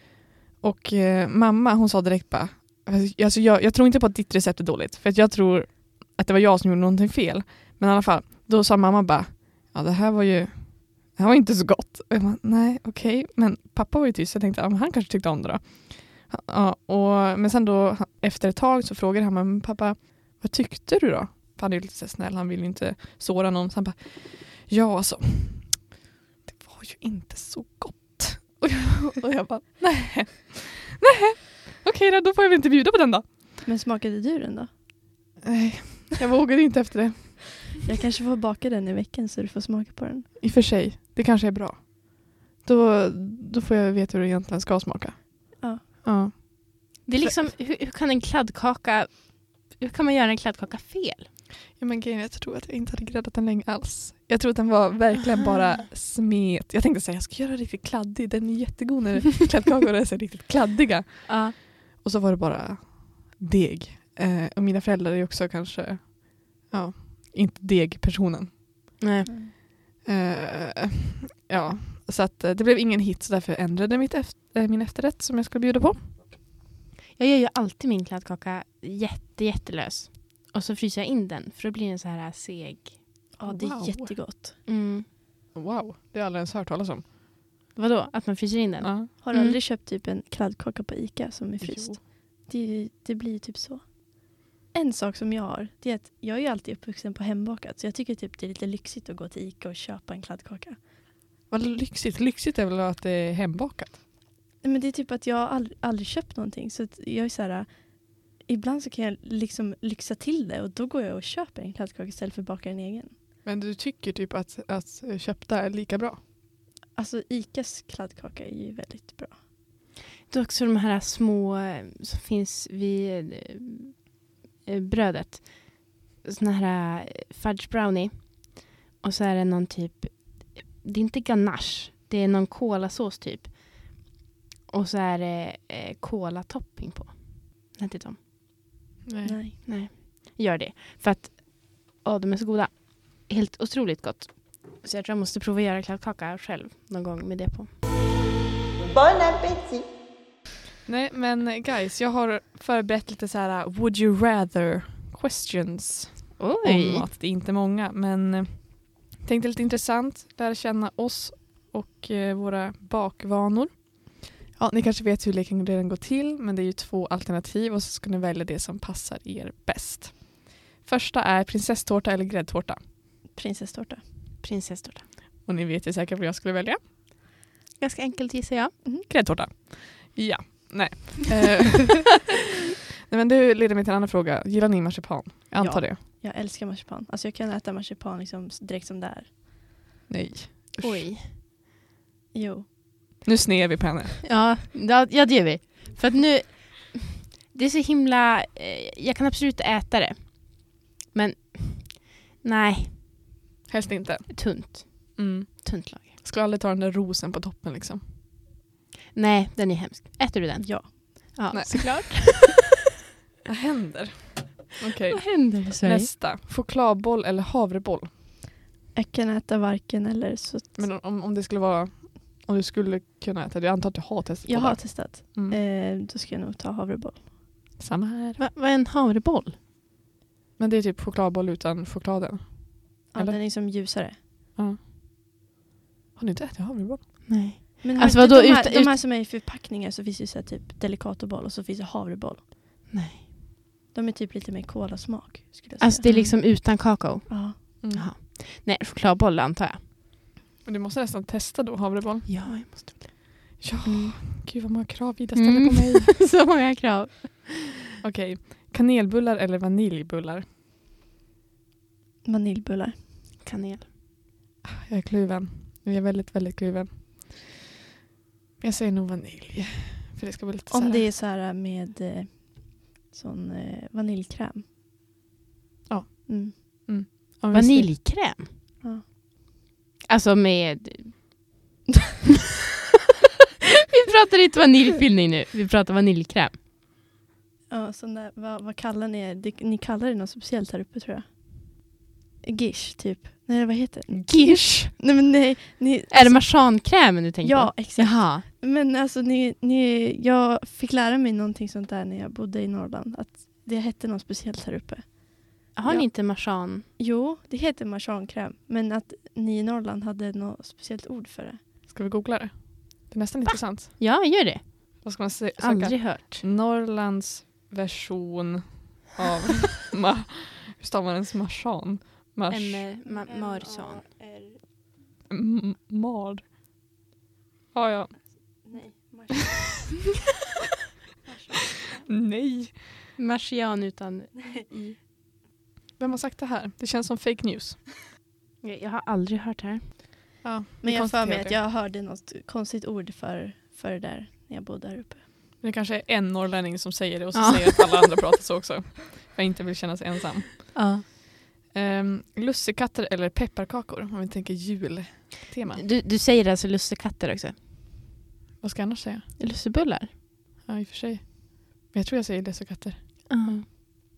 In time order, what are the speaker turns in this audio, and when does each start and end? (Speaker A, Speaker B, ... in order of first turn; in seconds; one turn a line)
Speaker A: 0.6-25.9
Speaker A: 26.4-33.5
Speaker B: 33.6-34.7
Speaker A: 35.4-37.6
Speaker B: 37.8-40.3
Speaker A: 40.4-47.5
Speaker C: 47.0-51.3
Speaker A: 51.8-68.6
Speaker C: 61.2-61.5
Speaker C: 69.0-69.3
Speaker B: 69.2-69.5
Speaker A: 70.0-76.1
Speaker C: 77.2-83.0
Speaker B: 83.4-84.6
Speaker A: 83.4-84.2
Speaker C: 84.7-85.0
Speaker A: 85.5-87.0
Speaker C: 87.7-89.6
Speaker A: 88.8-89.1
Speaker B: 89.2-100.8
Speaker A: 91.6-92.0
Speaker A: 101.5-104.0
Speaker B: 104.6-113.1
Speaker A: 113.4-116.2
Speaker B: 116.9-119.4
Speaker C: 120.3-124.0
Speaker C: 124.6-134.1
Speaker C: 134.7-138.2
Speaker A: 139.1-139.4
Speaker B: 139.2-139.6
Speaker C: 139.6-147.7
Speaker A: 150.8-172.8
Speaker C: 156.4-157.1
Speaker B: 173.3-174.0
Speaker C: 174.4-175.0
Speaker A: 175.4-176.8
Speaker C: 177.8-178.8
Speaker A: 179.1-182.3
Speaker A: 183.1-186.0
Speaker B: 185.6-189.3
Speaker A: 190.1-191.1
Speaker C: 190.8-191.3
Speaker B: 192.3-192.7
Speaker A: 193.2-194.2
Speaker C: 194.2-203.0
Speaker A: 203.7-208.0
Speaker C: 204.3-206.1
Speaker C: 209.1-212.6
Speaker B: 210.6-211.0
Speaker A: 211.5-212.5
Speaker A: 213.4-218.1
Speaker C: 215.1-216.1
Speaker B: 218.9-220.9
Speaker A: 220.8-225.6
Speaker B: 224.4-227.3
Speaker A: 227.8-228.4
Speaker C: 228.4-229.6
Speaker A: 230.6-233.4
Speaker B: 233.1-234.2
Speaker A: 236.2-237.2
Speaker C: 237.3-239.0
Speaker B: 237.8-242.4
Speaker C: 242.9-243.2
Speaker B: 243.9-246.1
Speaker C: 245.8-249.8
Speaker A: 246.0-246.3
Speaker B: 247.3-247.6
Speaker A: 247.8-248.1
Speaker A: 250.6-252.6
Speaker C: 252.3-254.2
Speaker A: 253.6-256.2
Speaker C: 255.3-257.7
Speaker A: 258.0-260.4
Speaker B: 262.2-263.0
Speaker C: 263.4-263.9
Speaker A: 264.6-267.6
Speaker A: 268.6-271.1
Speaker B: 270.7-274.6
Speaker A: 275.9-277.9
Speaker B: 276.3-276.5
Speaker C: 277.5-278.5
Speaker C: 280.1-281.4
Speaker C: 283.9-286.6
Speaker B: 287.7-291.8
Speaker B: 292.4-311.6
Speaker C: 294.3-294.9
Speaker C: 296.1-298.4
Speaker C: 305.7-306.9
Speaker A: 311.9-314.0
Speaker C: 314.0-316.4
Speaker A: 315.0-322.9
Speaker C: 322.5-324.0
Speaker B: 323.0-324.6
Speaker A: 325.3-326.4
Speaker A: 327.7-328.3
Speaker B: 328.6-330.1
Speaker B: 331.2-332.1
Speaker A: 332.1-332.9
Speaker C: 333.2-334.9
Speaker B: 334.4-334.9
Speaker A: 336.0-337.9
Speaker C: 338.6-339.9
Speaker A: 340.4-341.6
Speaker B: 340.8-345.2
Speaker A: 345.6-350.8
Speaker C: 347.3-347.7
Speaker C: 350.7-351.0
Speaker A: 351.7-355.8
Speaker C: 355.7-357.6
Speaker A: 358.6-359.3
Speaker C: 359.4-360.1
Speaker A: 360.6-363.6
Speaker C: 363.3-363.6